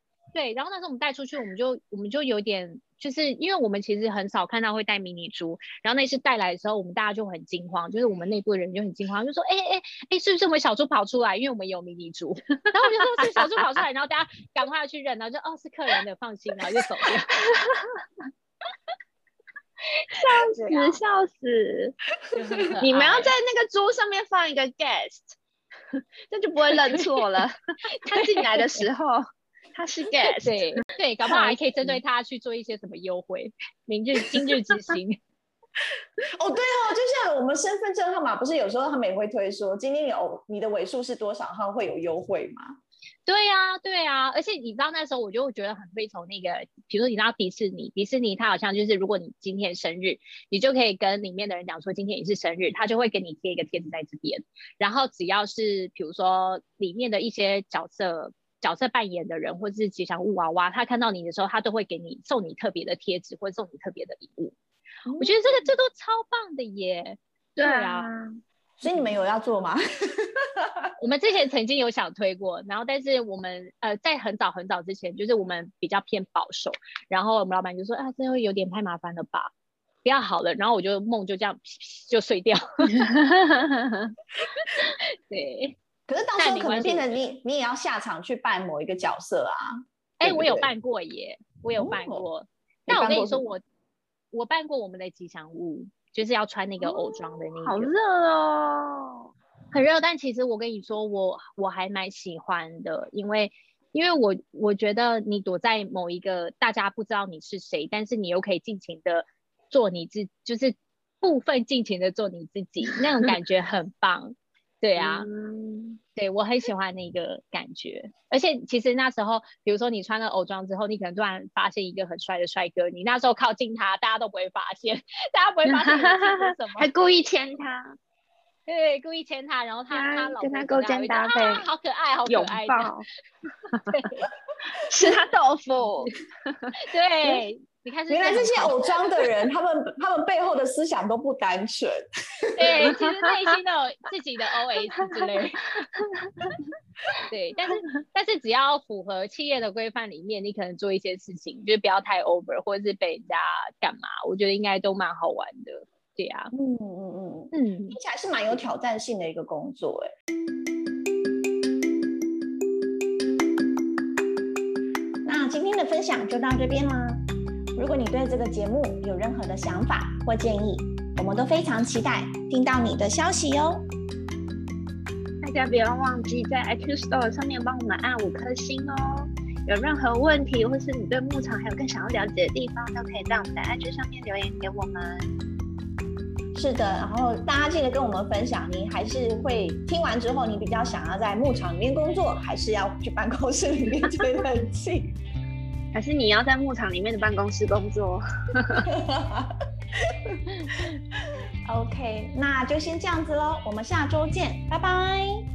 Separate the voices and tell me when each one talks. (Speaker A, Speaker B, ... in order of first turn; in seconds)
Speaker A: 0.3-17.3, 20.1-21.0, 22.3-23.3, 28.1-28.8, 30.2-35.2, 43.3-64.5, 65.2-68.1, 71.0-79.5, 80.0-83.1, 84.6-85.8, 86.4-87.1, 90.2-93.6, 94.3-97.9, 99.7-115.3, 116.2-126.9, 128.7-132.9, 133.8-134.3, 136.7-138.8, 142.6-145.9, 147.2-156.5, 157.5-158.0
Speaker B: 17.3-18.0, 20.1-22.0, 22.8-25.4, 26.3-30.8, 67.6-68.4, 82.9-84.1, 96.8-99.3, 115.0-116.0, 125.7-128.0, 129.9-131.7, 132.3-133.1, 134.8-136.7, 142.9-143.3, 144.9-145.3, 146.0-146.7, 175.4-185.3, 195.9-198.9
Speaker C: 36.3-42.8, 65.0-65.4, 68.8-70.9, 86.1-90.7, 91.8-92.2, 92.9-93.5, 138.1-142.8, 156.5-160.1, 165.2-167.2, 167.7-173.8, 186.5-195.1, 198.8-200.8, 201.7-205.4